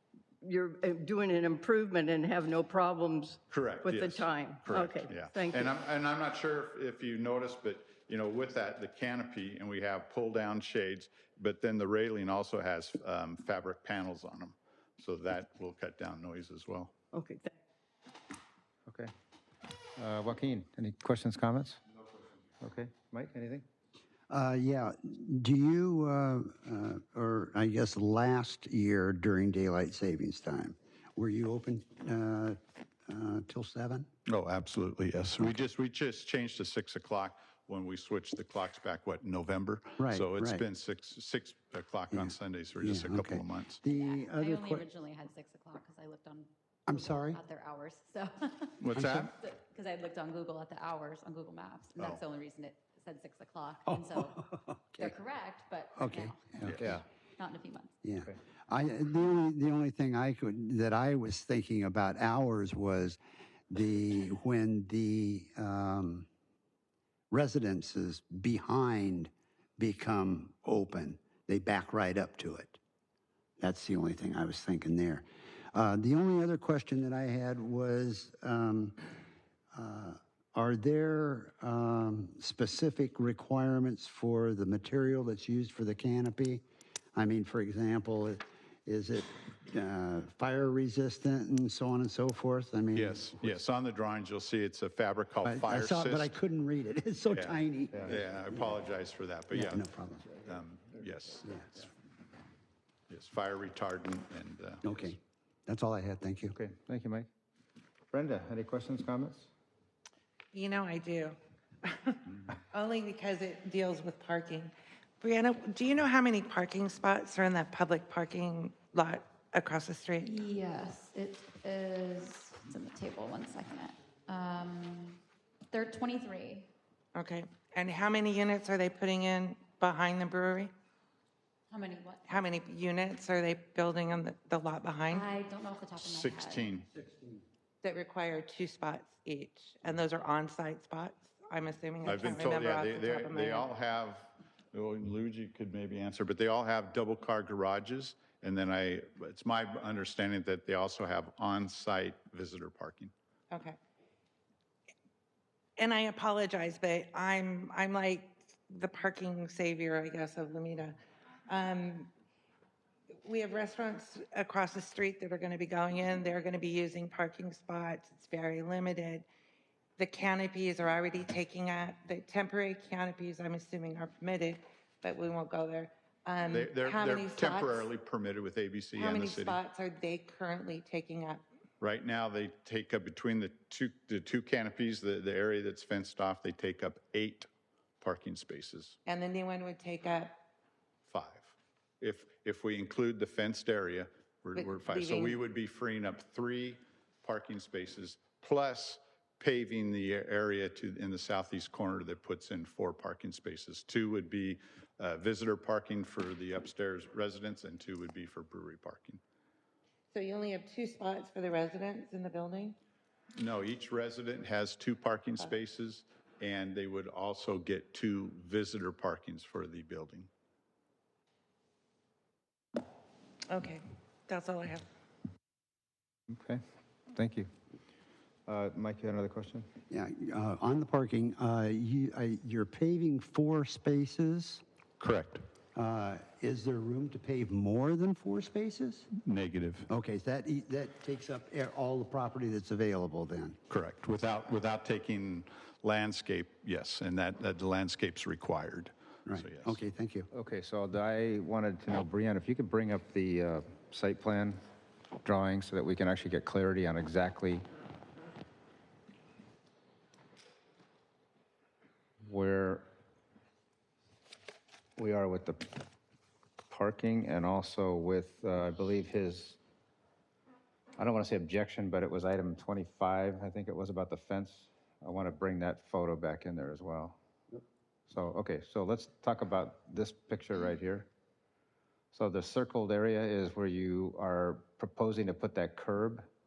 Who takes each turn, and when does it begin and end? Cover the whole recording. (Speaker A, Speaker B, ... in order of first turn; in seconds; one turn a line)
Speaker A: 0.4-5.7
Speaker B: 3.5-16.9
Speaker A: 17.1-17.5
Speaker C: 18.9-19.1
Speaker C: 20.0-21.8
Speaker C: 22.6-23.6
Speaker D: 24.3-34.1
Speaker B: 34.3-43.8
Speaker D: 40.0-40.6
Speaker D: 42.1-44.9
Speaker E: 43.8-56.5
Speaker D: 46.9-47.4
Speaker B: 48.8-49.3
Speaker D: 48.9-49.3
Speaker D: 53.9-55.1
Speaker D: 56.0-56.9
Speaker C: 56.7-57.0
Speaker E: 57.4-57.9
Speaker D: 58.0-63.2
Speaker D: 63.7-66.3
Speaker D: 67.3-72.8
Speaker D: 73.6-79.0
Speaker D: 79.7-86.6
Speaker D: 87.1-93.5
Speaker B: 92.9-96.3
Speaker D: 95.4-98.6
Speaker B: 97.3-99.8
Speaker C: 97.9-98.2
Speaker D: 99.5-100.3
Speaker B: 100.4-101.9
Speaker B: 103.1-105.1
Speaker D: 104.8-106.5
Speaker C: 106.5-107.3
Speaker C: 108.1-109.5
Speaker F: 110.5-120.3
Speaker E: 120.2-126.7
Speaker F: 127.1-130.7
Speaker E: 131.7-132.4
Speaker F: 132.3-135.3
Speaker E: 135.1-136.7
Speaker B: 136.0-136.9
Speaker D: 136.9-137.4
Speaker F: 137.8-143.7
Speaker B: 142.0-153.1
Speaker F: 153.5-153.8
Speaker F: 155.8-162.1
Speaker F: 163.2-169.3
Speaker F: 170.0-177.9
Speaker B: 176.5-179.6
Speaker F: 178.9-181.4
Speaker B: 181.8-187.5
Speaker B: 188.0-189.0
Speaker F: 189.1-190.4
Speaker B: 191.1-209.2
Speaker F: 194.5-195.4
Speaker F: 210.1-212.8
Speaker B: 213.4-220.3
Speaker F: 223.5-224.8
Speaker C: 226.3-226.6
Speaker C: 227.1-227.5
Speaker C: 228.5-229.7
Speaker D: 229.9-234.6
Speaker B: 235.0-235.4
Speaker D: 235.7-239.1
Speaker B: 239.2-239.9
Speaker D: 239.9-243.6
Speaker B: 243.7-249.8
Speaker D: 249.2-250.3
Speaker C: 250.3-254.6
Speaker C: 255.2-257.6
Speaker C: 262.2-262.9
Speaker C: 265.0-265.6
Speaker C: 266.7-269.6
Speaker C: 271.0-277.2
Speaker C: 278.1-281.1
Speaker C: 282.1-286.3